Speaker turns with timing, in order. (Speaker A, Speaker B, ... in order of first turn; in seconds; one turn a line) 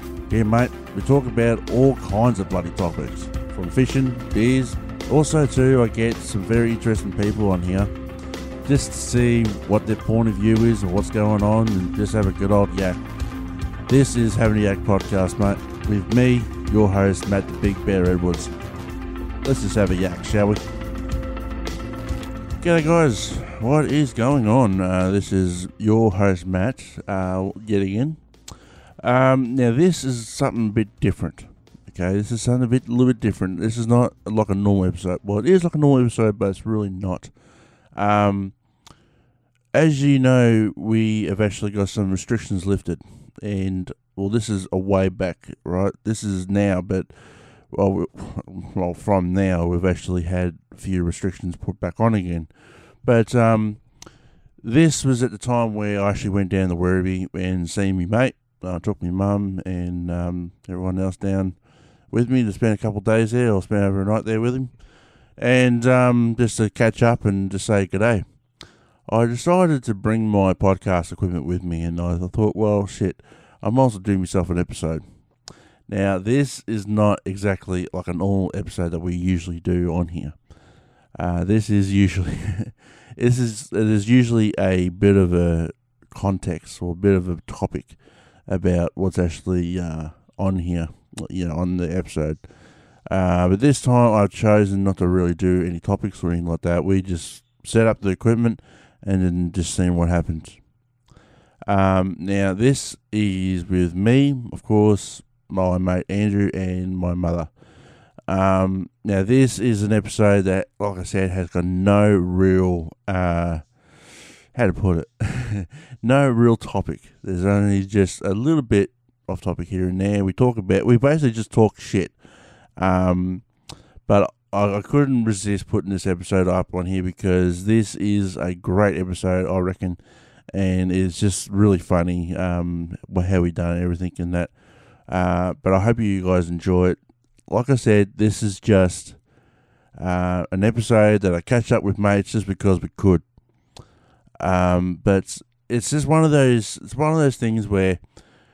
Speaker A: 0.3-7.9
Speaker A: 8.6-13.0
Speaker A: 13.9-18.5
Speaker A: 19.4-20.6
Speaker A: 22.6-28.2
Speaker A: 29.0-37.3
Speaker A: 37.9-38.6
Speaker A: 39.7-68.2
Speaker A: 69.0-75.0
Speaker A: 75.9-80.4
Speaker A: 81.1-92.5
Speaker A: 93.0-100.7
Speaker A: 101.7-107.5
Speaker A: 108.3-122.2
Speaker A: 122.7-123.5
Speaker A: 124.0-139.2
Speaker A: 139.9-143.3
Speaker A: 144.4-148.0